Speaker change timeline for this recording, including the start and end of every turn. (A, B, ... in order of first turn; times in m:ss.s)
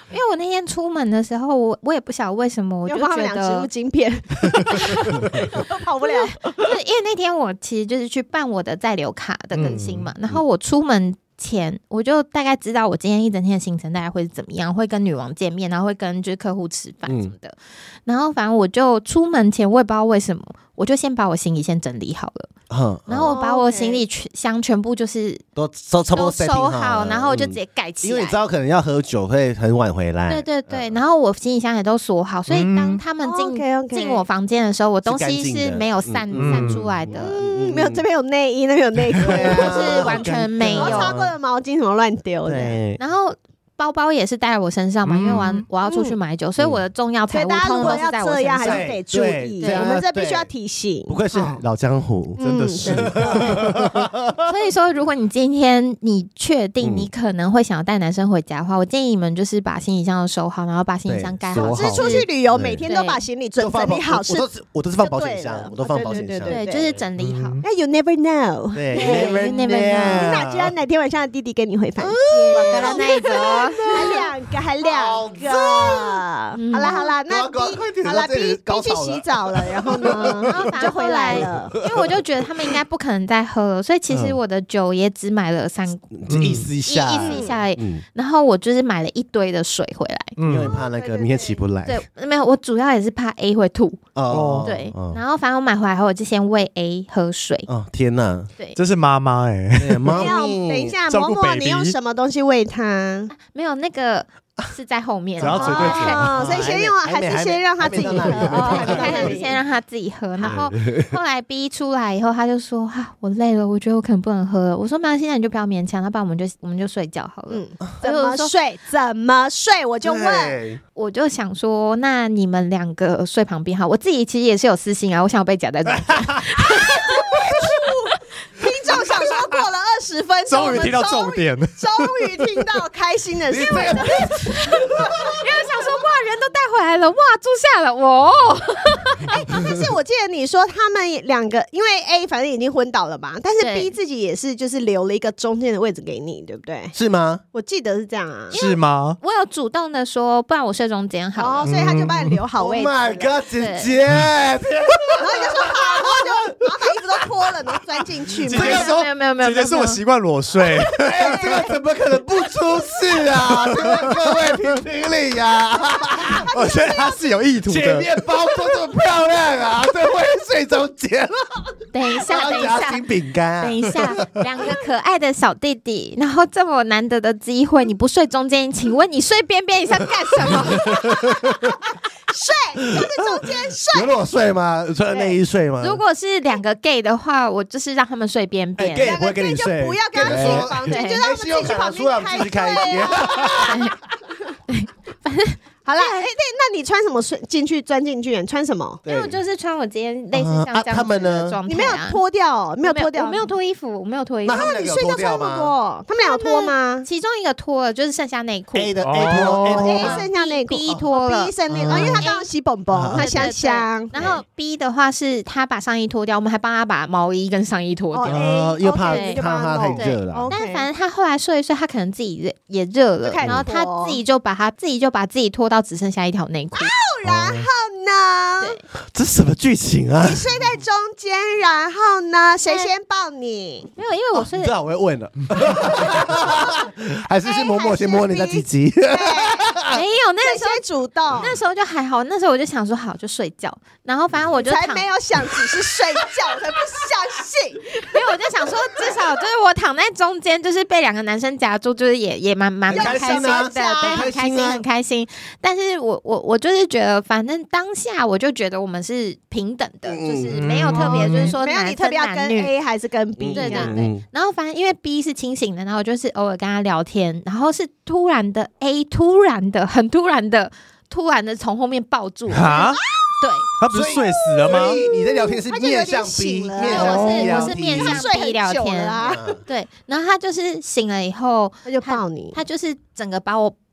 0:00.1-0:03.7 A
0:02.8-0:06.7 B
0:04.8-0:05.2 A
0:06.0-0:22.5 A
0:09.5-0:10.1 C
0:17.0-0:17.3 D
0:22.7-0:23.3 D
0:23.1-0:25.4 A
0:23.2-0:24.0 B
0:25.6-0:31.0 D
0:26.1-0:28.4 A
0:30.3-0:37.4 A
0:32.5-0:33.0 C
0:33.2-0:34.2 B
0:35.0-0:38.0 D
0:36.3-0:36.9 C
0:37.1-0:42.8 B
0:39.2-0:41.3 D
0:39.4-0:41.2 A
0:42.4-0:43.0 D
0:43.0-0:48.9 A
0:45.0-0:45.6 C
0:45.8-0:46.2 B
0:47.3-0:51.6 B
0:48.6-0:50.5 D
0:49.6-0:49.9 A
0:51.1-0:54.4 D
0:52.4-0:53.8 B
0:52.4-0:53.6 C
0:54.4-1:02.3 A
0:56.8-0:57.1 D
1:01.1-1:02.8 D
1:01.6-1:04.5 B
1:02.8-1:03.2 A
1:03.6-1:07.0 D
1:05.0-1:06.9 B
1:06.4-1:07.6 A
1:07.2-1:07.6 C
1:07.6-1:09.4 B
1:08.7-1:10.7 D
1:08.9-1:10.3 A
1:10.0-1:21.8 B
1:12.0-1:14.3 D
1:12.5-1:14.2 A
1:14.8-1:16.2 D
1:16.5-1:17.1 A
1:17.3-1:20.6 D
1:20.1-1:26.0 A
1:21.3-1:22.1 D
1:24.1-1:24.4 D
1:26.1-1:28.0 D
1:26.3-1:26.7 C
1:26.8-1:30.3 A
1:27.2-1:27.5 B
1:30.4-1:30.8 C
1:30.4-1:32.0 D
1:30.6-1:31.6 B
1:31.8-1:34.0 A
1:34.1-1:35.2 D
1:34.3-1:34.7 C
1:34.6-1:37.7 A
1:37.7-1:38.5 D
1:38.8-1:40.2 C
1:39.8-1:41.0 D
1:40.1-1:43.3 B
1:41.1-1:41.9 C
1:43.3-1:46.3 A
1:45.4-1:46.7 C
1:45.4-1:49.5 D
1:45.6-1:49.6 B
1:47.9-1:58.5 A
1:50.4-1:51.1 D
1:57.5-2:00.6 B
2:00.0-2:00.8 D
2:00.9-2:08.2 A
2:07.2-2:14.4 B
2:10.5-2:12.5 C
2:13.5-2:15.4 D
2:15.4-2:19.4 A
2:19.3-2:26.9 B
2:23.6-2:23.9 A
2:26.9-2:27.4 D
2:27.5-2:28.5 B
2:28.5-2:31.7 A
2:28.5-2:29.2 C
2:31.4-2:33.3 B
2:31.6-2:32.4 C
2:32.6-2:36.9 D
2:33.6-2:33.9 A
2:35.2-2:38.9 B
2:38.4-2:41.6 C
2:38.5-2:40.0 A
2:41.0-2:46.5 D
2:41.2-2:41.6 B
2:43.4-2:44.5 C
2:46.2-2:47.2 B
2:46.5-2:48.1 C
2:47.6-2:54.2 D
2:51.9-2:53.0 A
2:53.6-3:01.3 A
3:00.5-3:01.7 D
3:02.3-3:04.1 B
3:03.0-3:06.0 D
3:05.1-3:05.4 B
3:05.8-3:09.2 A
3:08.8-3:13.8 D
3:09.0-3:13.8 B
3:10.2-3:11.2 A
3:13.6-3:13.9 A
3:14.7-3:16.3 A
3:15.8-3:19.0 B
3:19.0-3:19.4 D
3:19.0-3:22.2 A
3:20.3-3:21.6 D
3:21.7-3:23.5 B
3:22.8-3:24.7 A
3:24.4-3:25.7 D
3:24.5-3:27.1 B
3:26.2-3:32.5 A
3:28.7-3:30.2 D
3:29.0-3:30.0 C
3:29.8-3:34.1 B
3:31.7-3:32.2 D
3:32.9-3:33.5 D
3:33.1-3:38.4 A
3:34.1-3:34.4 D
3:38.1-3:40.9 B
3:38.3-3:40.5 D
3:39.0-3:39.4 A
3:39.9-3:46.9 A
3:43.2-3:44.2 B
3:46.8-3:48.8 B
3:47.2-3:47.7 D
3:49.1-3:50.5 D
3:50.2-3:53.9 B
3:52.6-3:52.9 A
3:54.0-3:54.7 A
3:54.3-4:00.0 D
3:57.4-3:59.8 B
3:59.9-4:00.8 A
4:00.4-4:01.6 B
4:01.4-4:05.1 A
4:04.6-4:08.3 B
4:08.1-4:22.7 A
4:12.9-4:14.8 D
4:12.9-4:14.3 B
4:20.0-4:21.0 D
4:20.5-4:21.5 C
4:20.9-4:24.0 B
4:23.4-4:24.2 D
4:23.5-4:33.7 A
4:32.5-4:33.0 C
4:33.8-4:35.0 C
4:33.9-4:38.2 D
4:34.7-4:39.6 B
4:36.8-4:43.8 A
4:37.0-4:37.4 C
4:39.2-4:39.6 D
4:41.8-4:42.6 B